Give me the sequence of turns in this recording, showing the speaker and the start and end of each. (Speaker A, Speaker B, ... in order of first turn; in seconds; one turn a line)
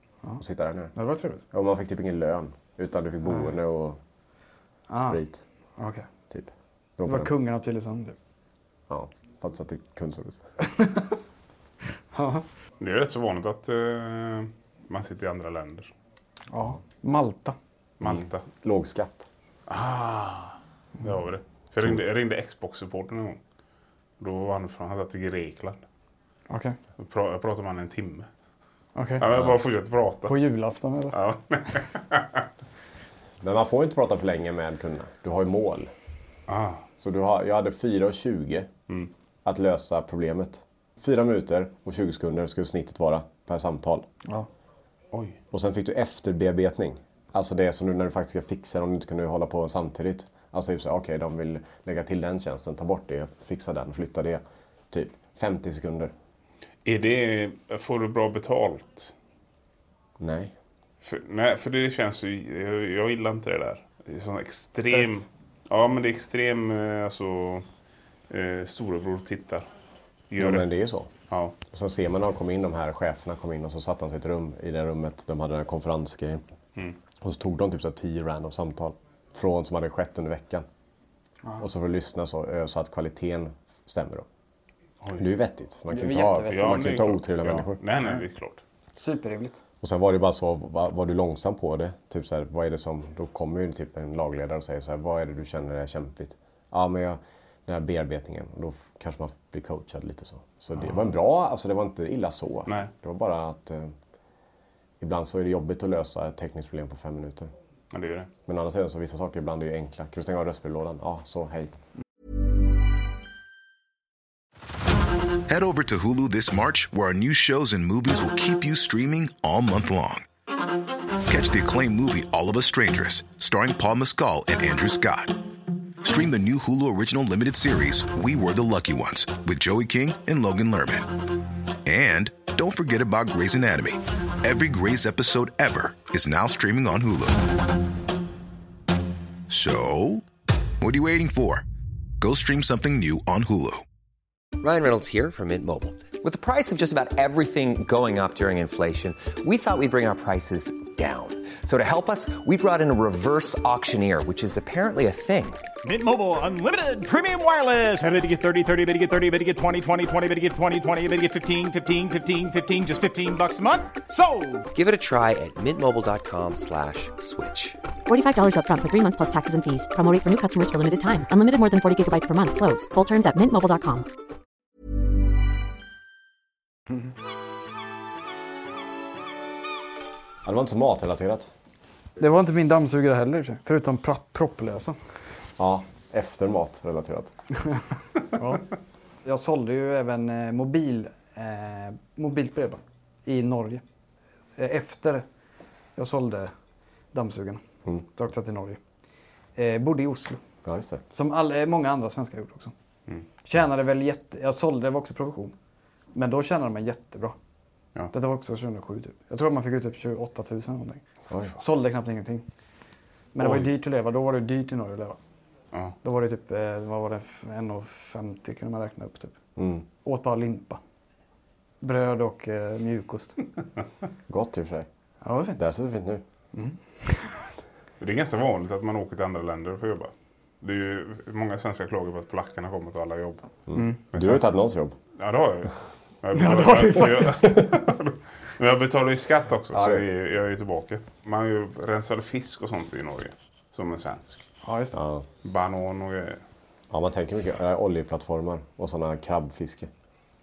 Speaker A: 0.4-0.9
Speaker B: 0.9-1.4
Speaker A: 1.5-4.0
Speaker B: 4.9-5.2
Speaker A: 4.9-5.4
Speaker B: 5.8-6.1
Speaker A: 6.3-7.3
Speaker B: 7.0-8.2
Speaker A: 8.9-10.4
Speaker B: 10.6-11.1
Speaker B: 12.1-12.4
Speaker C: 12.8-15.9
Speaker B: 16.5-17.6
Speaker C: 18.0-18.4
Speaker A: 18.0-19.3
Speaker C: 19.7-23.4
Speaker C: 24.2-25.8
Speaker B: 26.5-26.8
Speaker C: 27.0-28.3
Speaker B: 28.9-29.2
Speaker C: 29.2-30.4
Speaker B: 30.3-31.2
Speaker C: 31.1-32.5
Speaker A: 33.4-35.9
Speaker C: 36.5-36.8
Speaker A: 37.0-38.7
Speaker A: 39.4-44.1
Speaker C: 45.1-45.4
Speaker A: 45.5-56.1
Speaker C: 56.8-59.1
Speaker A: 60.2-60.5
Speaker C: 61.0-67.7
Speaker B: 64.8-65.3
Speaker C: 68.3-69.7
Speaker C: 70.3-70.7
Speaker A: 70.4-71.1
Speaker C: 71.3-71.5
Speaker A: 71.7-76.4
Speaker A: 77.2-80.7
Speaker A: 81.6-84.2
Speaker A: 85.2-87.8
Speaker B: 85.9-86.9
Speaker C: 86.5-88.6
Speaker B: 88.0-88.2
Speaker B: 89.0-89.6
Speaker A: 89.8-103.9
Speaker A: 105.0-107.5
Speaker C: 107.9-108.3
Speaker A: 108.5-111.8
Speaker D: 115.5-120.2
Speaker D: 121.2-125.4
Speaker D: 126.0-131.3
Speaker D: 131.8-137.4
Speaker D: 139.5-140.3
Speaker D: 140.8-141.6
Speaker D: 142.2-143.8
Speaker E: 144.6-155.6
Speaker F: 155.8-164.7
Speaker E: 164.7-167.8
Speaker G: 168.1-174.1
Speaker A: 180.4-181.5
Speaker B: 182.2-185.0
Speaker A: 185.6-187.3
Speaker B: 188.3-188.7
Speaker B: 189.2-193.8
Speaker B: 194.6-195.2
Speaker B: 195.9-196.5
Speaker B: 197.1-198.8
Speaker B: 199.6-200.4
Speaker A: 200.6-201.0
Speaker B: 201.1-202.7
Speaker B: 203.4-205.5
Speaker B: 206.1-207.4
Speaker B: 208.1-211.0
Speaker B: 211.5-212.4
Speaker B: 213.3-215.2
Speaker A: 213.4-213.7
Speaker B: 216.0-219.3
Speaker A: 219.6-219.8
Speaker B: 220.0-220.8
Speaker B: 221.8-223.4
Speaker A: 224.3-224.9
Speaker B: 225.2-225.6
Speaker A: 225.6-226.2
Speaker B: 226.5-227.3
Speaker C: 228.0-233.5
Speaker A: 233.7-234.9
Speaker B: 233.7-234.0
Speaker C: 234.1-234.5
Speaker C: 235.1-244.4
Speaker B: 236.3-237.6
Speaker A: 239.7-240.0
Speaker B: 244.6-245.0
Speaker A: 244.9-245.2
Speaker C: 245.4-246.4
Speaker A: 246.9-249.9